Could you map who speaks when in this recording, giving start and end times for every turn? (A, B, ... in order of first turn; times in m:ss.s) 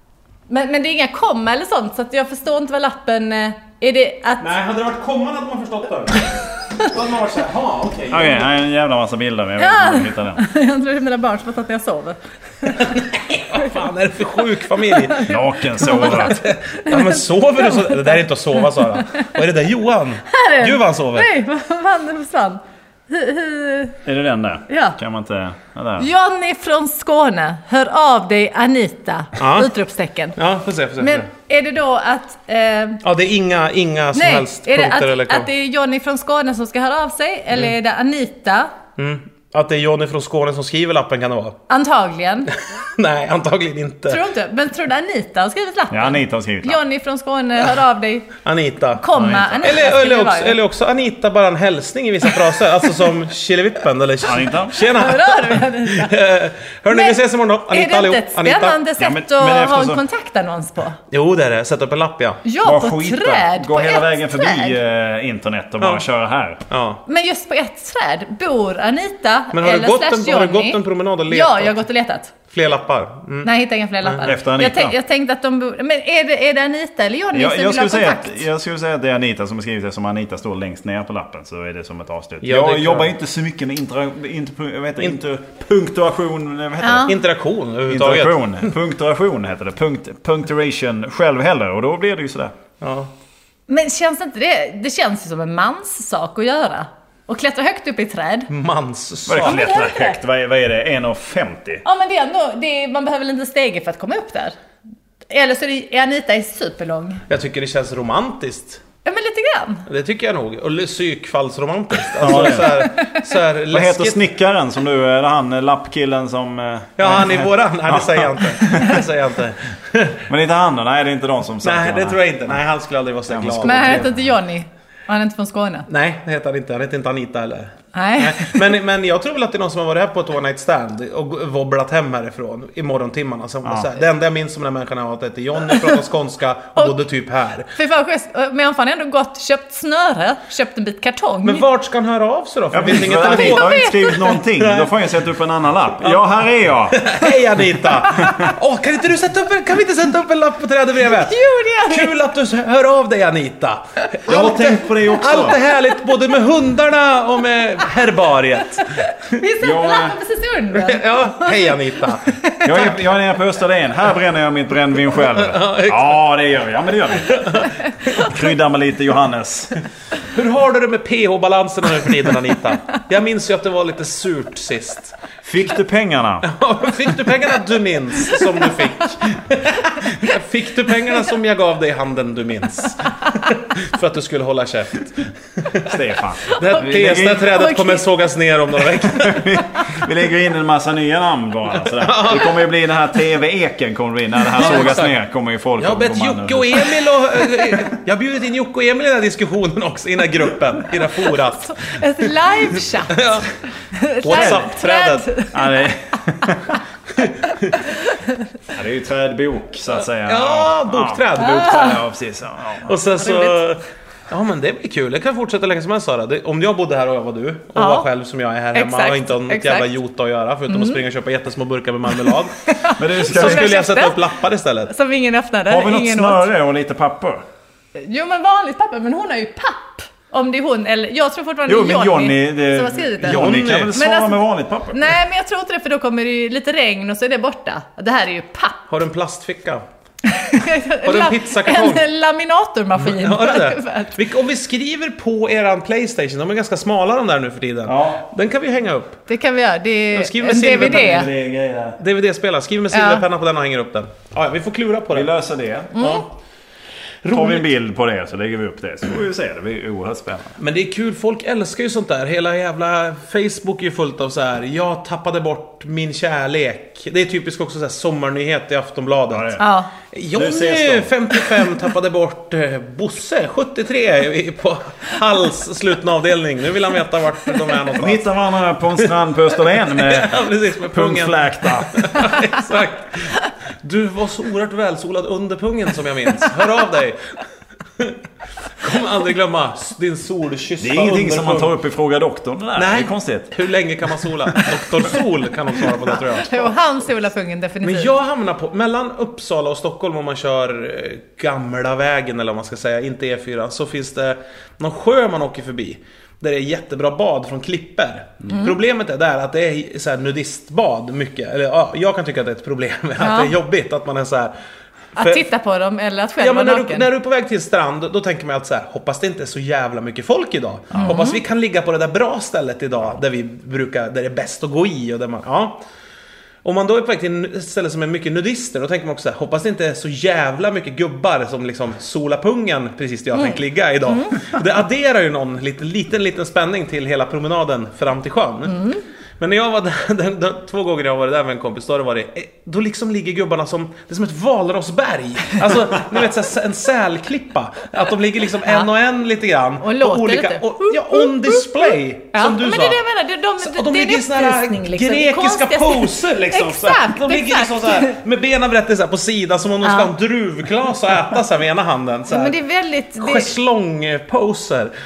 0:00.5-0:04.5 A
0:04.4-0:08.5 B
0:08.1-0:10.4 C
0:09.6-0:13.0 A
0:12.7-0:15.3 B
0:14.8-0:19.3 A
0:15.2-0:16.4 C
0:15.9-0:21.3 B
0:20.3-0:24.0 A
0:24.0-0:26.1 C
0:24.7-0:25.0 A
0:26.0-0:30.4 A
0:29.4-0:29.7 B
0:30.4-0:31.3 B
0:31.0-0:33.0 A
0:33.0-0:35.5 B
0:34.1-0:38.7 A
0:39.0-0:41.6 B
0:41.7-0:42.5 A
0:43.0-0:44.2 B
0:44.1-0:48.3 A
0:45.9-0:46.8 C
0:48.4-0:49.0 B
0:49.0-0:50.6 A
0:49.1-0:49.8 C
0:49.6-0:58.8 B
0:54.2-0:54.8 C
0:54.7-0:56.2 A
0:56.9-1:01.0 A
0:59.0-1:00.0 C
1:01.1-1:02.4 B
1:02.4-1:04.8 A
1:02.6-1:06.6 C
1:06.7-1:07.0 B
1:07.1-1:12.3 A
1:09.5-1:11.8 B
1:12.5-1:13.5 B
1:13.4-1:18.4 A
1:14.0-1:14.3 B
1:14.2-1:15.0 C
1:17.3-1:27.1 C
1:22.4-1:23.1 B
1:26.8-1:27.1 A
1:27.1-1:28.7 B
1:27.9-1:32.6 C
1:32.8-1:33.1 B
1:33.7-1:38.5 A
1:38.5-1:39.7 B
1:39.3-1:41.8 C
1:39.4-1:40.2 A
1:41.8-1:44.6 A
1:45.3-1:47.2 A
1:47.3-1:48.8 B
1:49.0-1:49.8 A
1:49.9-1:54.2 B
1:52.2-1:52.9 C
1:53.7-1:59.0 C
1:57.0-2:00.2 B
2:00.3-2:02.2 C
2:01.6-2:04.1 B
2:03.3-2:04.1 C
2:03.6-2:05.9 A
2:05.9-2:17.7 B
2:07.9-2:08.6 A
2:17.7-2:21.6 A
2:21.4-2:23.8 B
2:22.7-2:27.0 C
2:23.3-2:24.4 A
2:24.4-2:25.0 B
2:26.0-2:26.3 B
2:26.9-2:38.8 B
2:28.2-2:28.5 C
2:31.1-2:32.2 A
2:34.3-2:35.6 C
2:39.2-2:41.6 A
2:39.6-2:40.2 C
2:40.7-2:42.3 B
2:42.6-2:49.8 C
2:45.2-2:46.2 B
2:47.3-2:47.7 B
2:50.3-2:55.2 B
2:55.4-2:56.5 C
2:56.4-3:05.9 B
3:05.8-3:07.5 C
3:06.5-3:09.6 B
3:07.5-3:08.1 A
3:09.2-3:17.0 C
3:11.9-3:12.6 B
3:14.5-3:15.2 B
3:15.8-3:21.7 B
3:21.4-3:25.8 A
3:23.2-3:23.4 B
3:24.2-3:25.3 B
3:24.4-3:24.6 C
3:25.5-3:26.8 C
3:27.2-3:27.7 B
3:27.9-3:28.4 A
3:28.7-3:32.9 C
3:30.2-3:32.0 B
3:31.4-3:31.9 A
3:32.8-3:42.6 B
3:33.2-3:33.6 A
3:37.8-3:38.1 A
3:38.7-3:40.0 A
3:40.7-3:41.0 A
3:42.6-3:44.2 A
3:43.0-3:43.8 C
3:43.2-3:44.9 B
3:44.9-3:46.5 A
3:45.7-3:47.4 C
3:48.0-3:58.9 A
3:51.7-3:55.2 C
3:53.2-3:54.0 B
3:58.9-3:59.8 B
4:00.3-4:04.2 A
4:01.0-4:02.1 B
4:03.0-4:09.2 B
4:07.9-4:08.2 C
4:09.3-4:11.3 A
4:10.1-4:11.3 B
4:10.7-4:12.0 C
4:12.0-4:15.3 B
4:12.9-4:13.2 A
4:15.1-4:16.2 C
4:16.0-4:16.2 A
4:17.2-4:17.7 B
4:17.3-4:20.6 C
4:20.6-4:29.6 B
4:29.3-4:29.7 C
4:29.6-4:29.9 A
4:30.1-4:38.3 B
4:30.3-4:31.1 C
4:38.0-4:42.3 C
4:39.8-4:47.2 B
4:48.8-4:51.7 B
4:50.8-4:53.5 C
4:52.8-4:56.7 B
4:56.2-4:58.1 A
4:57.8-5:14.5 B
5:13.2-5:13.5 A
5:15.2-5:17.1 A
5:15.2-5:15.4 B
5:16.4-5:25.8 B
5:21.0-5:21.4 A
5:26.6-5:53.0 B
5:33.4-5:34.4 A
5:38.7-5:39.0 A
5:49.8-5:58.2 A
5:53.6-6:02.6 B
5:59.8-6:00.1 A
6:02.3-6:03.5 A
6:03.2-6:04.9 B